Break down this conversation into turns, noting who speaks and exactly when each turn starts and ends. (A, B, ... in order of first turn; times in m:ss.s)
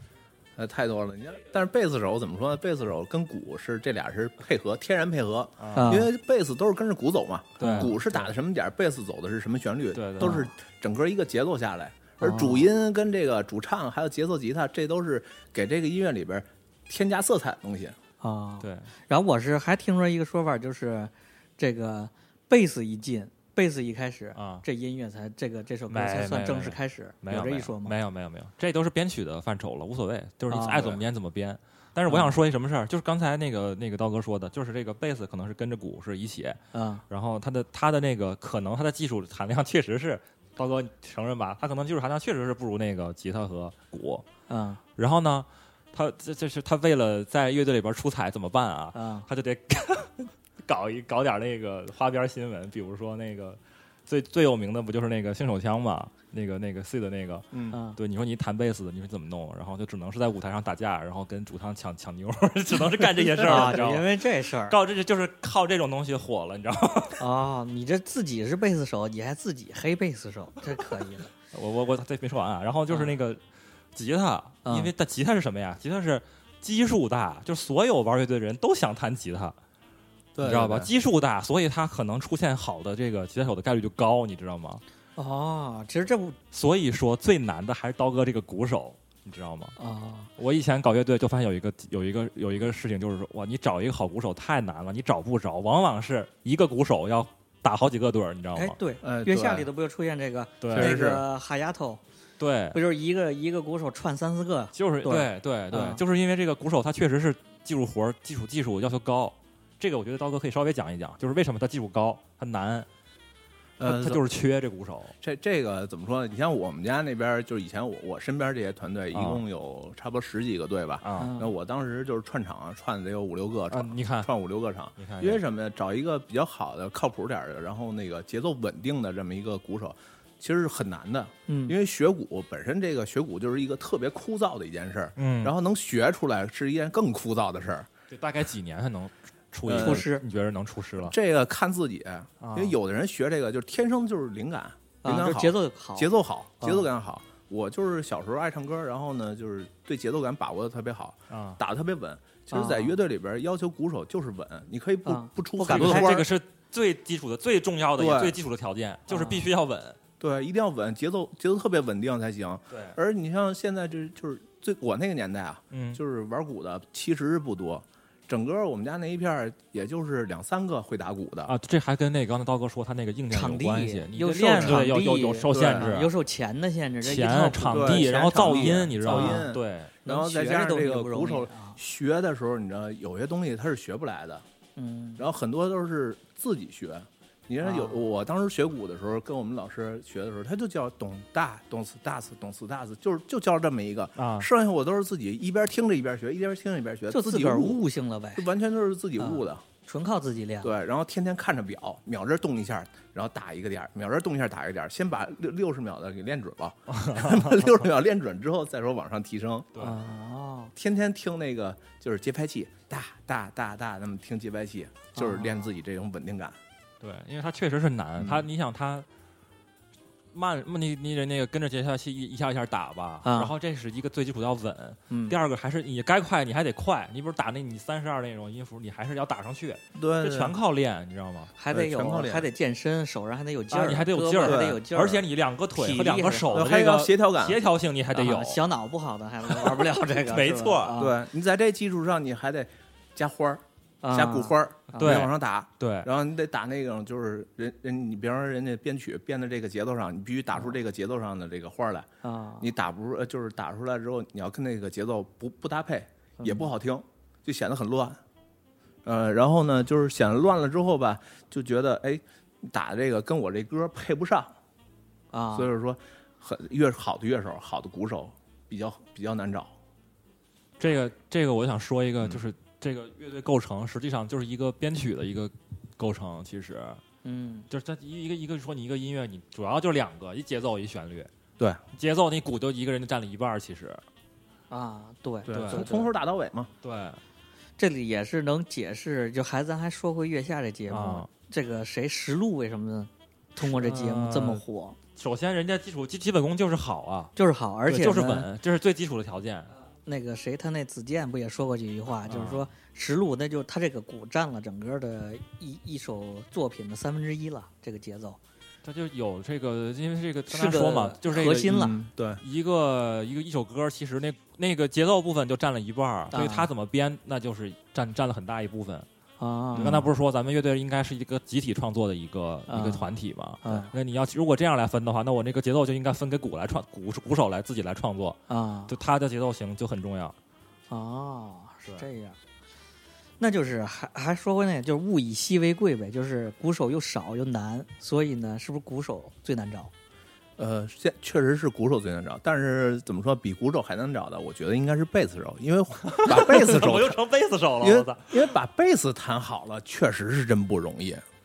0:00.6-0:18.0 A
0:05.6-0:06.0 B
0:05.7-0:06.1 C
0:07.6-0:08.3 B
0:07.6-0:07.9 C
0:09.9-0:10.4 B
0:10.2-0:10.5 C
0:12.2-0:12.7 C
0:18.2-0:27.9 C
0:18.6-0:18.9 B
0:24.3-0:24.6 B
0:25.9-0:44.2 B
0:30.5-0:31.0 C
0:32.1-0:32.3 C
0:36.7-0:37.0 C
0:44.5-0:44.8 C
0:45.0-1:04.1 B
0:48.9-0:49.3 C
0:57.7-0:58.0 C
1:03.4-1:04.8 C
1:04.7-1:07.2 B
1:07.2-1:11.3 C
1:11.5-1:13.4 B
1:13.9-1:19.5 B
1:14.6-1:14.9 C
1:20.3-1:20.9 A
1:20.4-1:24.8 B
1:25.2-1:26.4 C
1:26.5-1:29.7 B
1:29.8-1:30.3 C
1:30.4-1:38.8 B
1:38.5-1:42.0 C
1:39.0-1:39.7 A
1:40.6-1:41.0 B
1:40.7-1:41.2 A
1:42.4-1:42.8 B
1:42.7-1:46.0 C
1:44.7-1:52.9 B
1:53.8-1:54.2 A
1:53.8-1:55.1 B
1:55.2-2:17.9 A
1:59.1-1:59.4 B
2:01.0-2:01.3 B
2:01.2-2:01.5 C
2:03.7-2:04.3 B
2:05.0-2:05.4 B
2:11.5-2:11.7 C
2:15.2-2:15.5 B
2:18.1-2:21.1 B
2:19.6-2:20.0 A
2:19.8-2:20.2 C
2:21.0-2:36.3 A
2:22.4-2:22.8 B
2:25.0-2:26.9 C
2:31.3-2:31.6 B
2:32.5-2:33.0 C
2:35.0-2:36.2 C
2:35.7-2:40.0 B
2:38.0-2:38.4 A
2:39.1-2:39.4 C
2:40.2-2:51.5 A
2:42.7-2:43.0 B
2:45.7-2:46.0 B
2:51.4-2:56.1 B
2:53.3-2:59.5 C
2:54.6-2:54.8 A
2:55.5-2:55.9 A
2:57.0-2:59.9 B
2:57.7-3:04.4 A
3:00.0-3:01.8 C
3:04.8-3:05.2 C
3:05.2-3:17.8 A
3:07.6-3:08.1 C
3:14.2-3:14.5 B
3:17.1-3:18.5 C
3:18.3-3:19.6 A
3:19.2-3:20.7 C
3:20.6-3:29.7 A
3:26.9-3:27.7 B
3:29.8-3:30.7 C
3:30.7-3:36.6 A
3:35.1-3:35.7 C
3:37.0-3:39.0 B
3:38.2-3:38.4 A
3:40.3-3:51.5 B
3:43.2-3:43.5 C
3:45.1-3:45.4 C
3:50.0-3:50.6 A
3:51.6-3:55.2 C
3:51.7-3:52.5 A
3:53.7-3:58.6 B
3:54.4-3:54.8 A
3:55.7-3:56.6 C
3:56.5-3:57.6 A
3:58.1-4:01.2 C
3:59.4-4:01.0 B
4:01.0-4:12.1 A
4:04.0-4:05.3 C
4:05.0-4:06.1 B
4:12.2-4:12.7 C
4:12.6-4:18.2 A
4:16.4-4:16.7 C
4:19.0-4:24.5 A
4:25.3-4:25.7 C
4:25.5-4:29.7 A
4:30.8-4:37.0 B
4:37.2-4:37.7 C
4:37.7-4:41.3 B
4:41.9-4:44.0 B
4:44.7-4:46.1 C
4:45.4-4:46.7 A
4:45.5-4:45.9 B
4:46.8-4:47.2 B
4:47.8-4:55.0 C
4:50.9-4:51.3 B
4:53.6-4:54.6 B
4:55.2-4:57.3 B
4:57.4-4:58.5 C
4:57.8-4:59.7 B
5:00.0-5:08.4 C
5:02.3-5:02.6 B
5:08.8-5:19.1 B
5:10.5-5:11.9 C
5:11.6-5:12.4 A
5:16.3-5:16.7 C
5:19.4-5:20.0 C
5:19.7-5:30.3 B
5:19.8-5:20.1 A
5:22.7-5:23.1 C
5:23.6-5:23.9 C
5:28.5-5:28.9 C
5:30.9-5:32.4 C
5:33.4-5:39.9 C
5:40.6-5:47.2 A
5:46.0-5:48.5 B
5:47.8-5:51.2 A